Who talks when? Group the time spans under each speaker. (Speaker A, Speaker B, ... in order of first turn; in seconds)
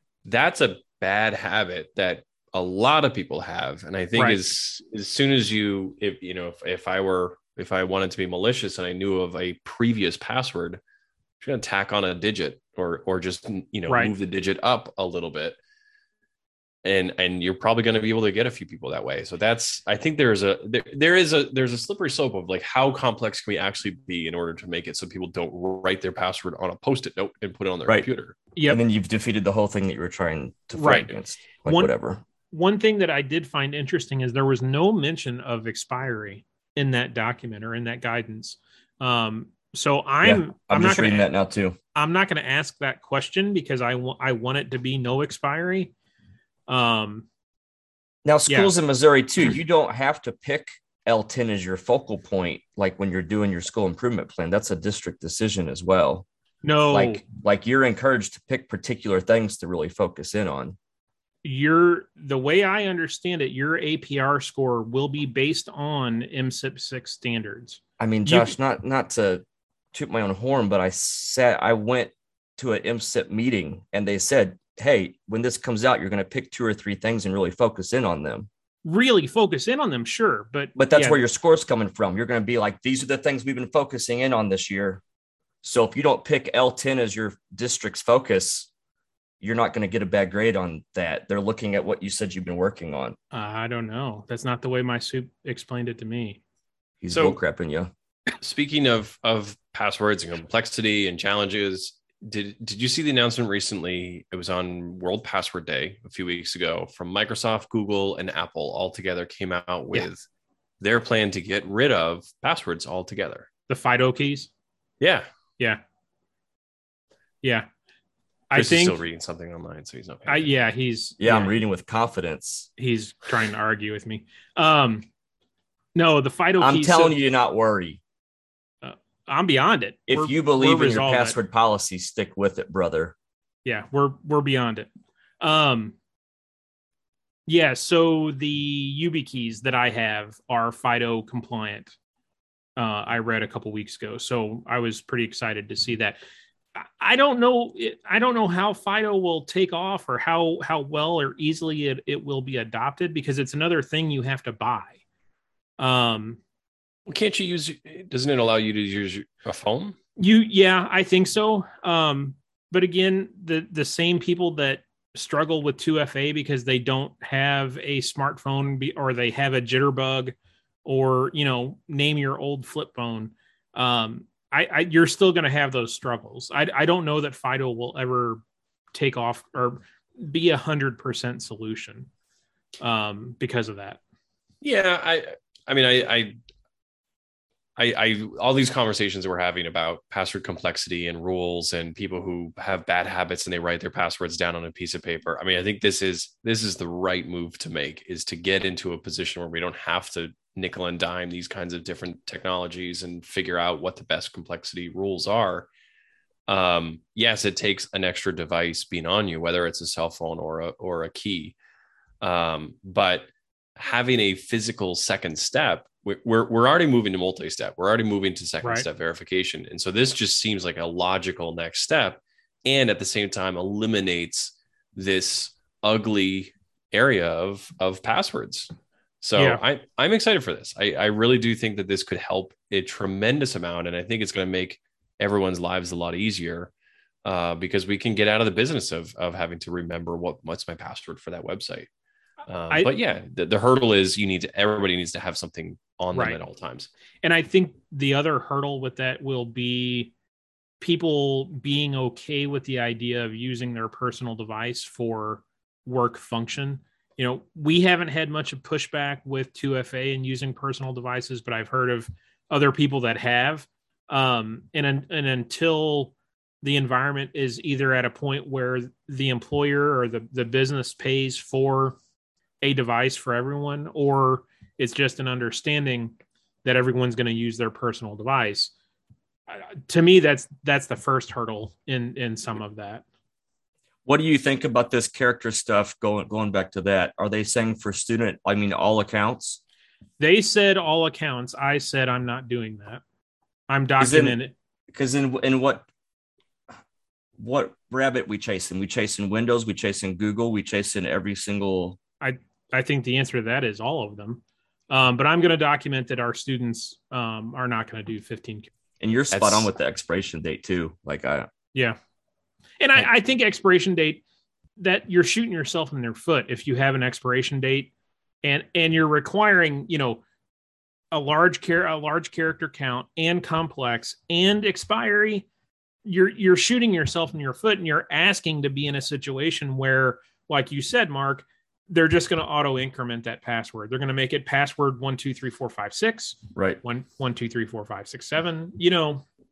Speaker A: 0.2-10.8, 11.4-15.6, 16.8-28.4, 97.1-97.4, 98.4-110.2, 110.8-113.5, 115.0-115.3, 118.5-120.5, 157.1-160.0, 184.6-186.3, 187.8-205.7, 206.5-211.6, 212.2-228.7, 229.2-236.7, 237.2-241.9, 242.5-246.9, 309.3-309.7
Speaker B: 4.2-4.4, 30.8-31.1, 32.5-41.3, 42.0-45.9, 46.7-47.3, 48.5-48.7, 56.6-57.2, 61.4-68.5, 78.8-81.2, 93.3-96.4, 113.7-114.5, 118.5-119.0, 120.3-121.5, 122.8-125.1, 126.0-127.2, 128.8-131.3, 133.7-134.9, 135.4-135.9, 137.5-141.9, 142.8-146.2, 146.8-155.0, 155.8-156.4, 160.2-178.4, 178.9-182.1, 182.8-184.0, 246.1-246.4, 247.2-250.1, 250.8-272.0, 272.6-278.7, 279.5-283.0, 290.2-293.0, 293.7-294.5, 302.2-308.7, 312.8-314.2, 314.8-317.9, 318.4-320.2, 321.1-325.5, 326.1-339.2
Speaker C: 28.7-32.2, 40.2-41.8, 48.2-56.3, 56.9-60.8, 68.0-78.5, 80.8-85.0, 85.6-88.7, 89.4-93.2, 97.0-97.9, 121.2-122.7, 126.6-128.0, 130.1-133.1, 284.1-289.6, 294.0-294.4, 294.9-295.9, 297.4-302.0, 309.0-311.5, 336.6-336.8